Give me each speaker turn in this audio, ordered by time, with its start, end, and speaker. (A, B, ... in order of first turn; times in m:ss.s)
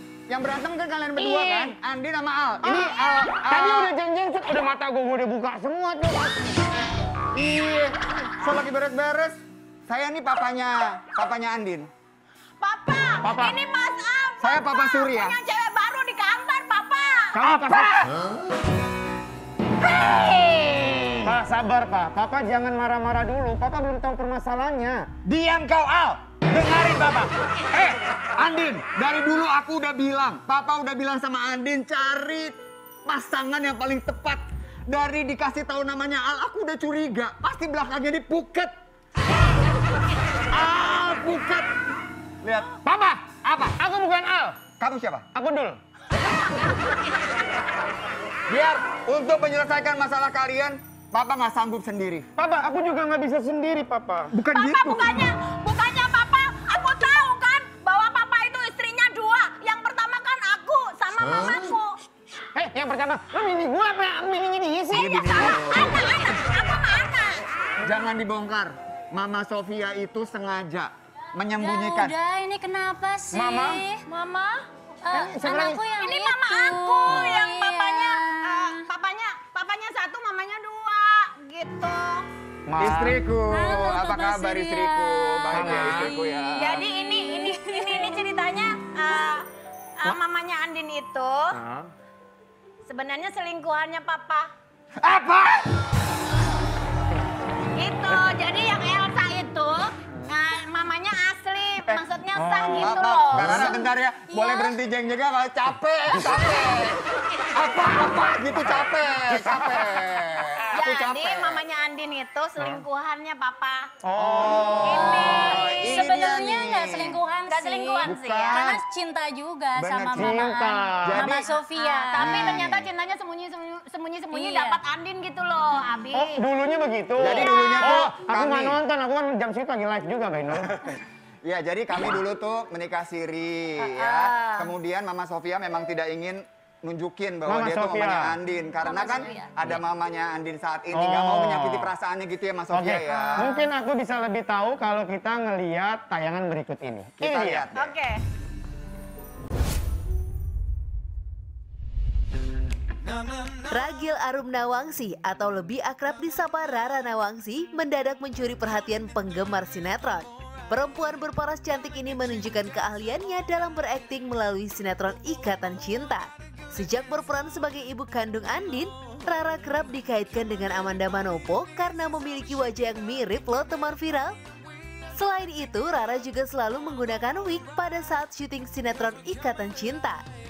0:00.3-0:03.9 A
0:01.3-0:01.7 B
0:02.6-0:06.4 B
0:07.3-0:11.9 A
0:12.6-0:17.4 C
0:13.2-0:13.6 B
0:14.4-0:15.4 A
0:17.3-0:18.2 A
0:17.6-0:17.9 B
0:19.8-0:21.3 A
0:21.2-0:25.1 B
0:25.2-0:38.7 A
0:40.5-0:41.7 A
0:42.4-0:42.7 A
0:42.8-0:44.6 B
0:43.4-0:43.8 A
0:44.8-0:45.3 A
0:45.3-0:45.8 B
0:48.5-0:52.3 A
0:52.4-0:54.3 B
0:54.3-0:55.3 A
0:54.5-1:02.0 C
1:02.5-1:05.4 B
1:04.9-1:07.4 C
1:04.9-1:06.0 A
1:07.8-1:12.2 A
1:11.5-1:14.0 D
1:13.3-1:13.8 B
1:14.1-1:14.6 C
1:15.0-1:18.8 D
1:15.1-1:15.8 B
1:15.4-1:22.3 C
1:22.6-1:23.2 B
1:22.8-1:26.8 A
1:23.5-1:28.2 D
1:25.5-1:26.1 B
1:26.6-1:29.4 C
1:30.0-1:31.6 C
1:32.8-1:34.5 C
1:35.0-1:35.7 A
1:37.7-1:44.7 C
1:42.4-1:42.9 B
1:42.8-1:51.6 A
1:49.6-1:49.8 B
1:50.7-1:53.9 C
1:54.0-1:55.3 B
1:54.2-1:57.2 A
1:54.6-1:56.0 C
1:55.0-2:02.6 D
1:57.5-1:58.7 C
1:58.0-1:58.8 A
1:59.8-2:01.5 A
2:00.1-2:01.3 B
2:01.4-2:06.4 C
2:02.2-2:02.8 A
2:04.3-2:04.8 D
2:06.1-2:10.9 B
2:07.2-2:08.8 A
2:07.3-2:07.8 C
2:10.8-2:23.5 A
2:13.8-2:14.7 C
2:17.4-2:18.4 B
2:18.8-2:19.5 C
2:20.9-2:21.9 B
2:22.7-2:27.7 B
2:23.1-2:23.6 C
2:27.2-2:27.9 A
2:27.7-2:28.2 C
2:33.7-2:54.3 E
2:55.1-3:00.2 E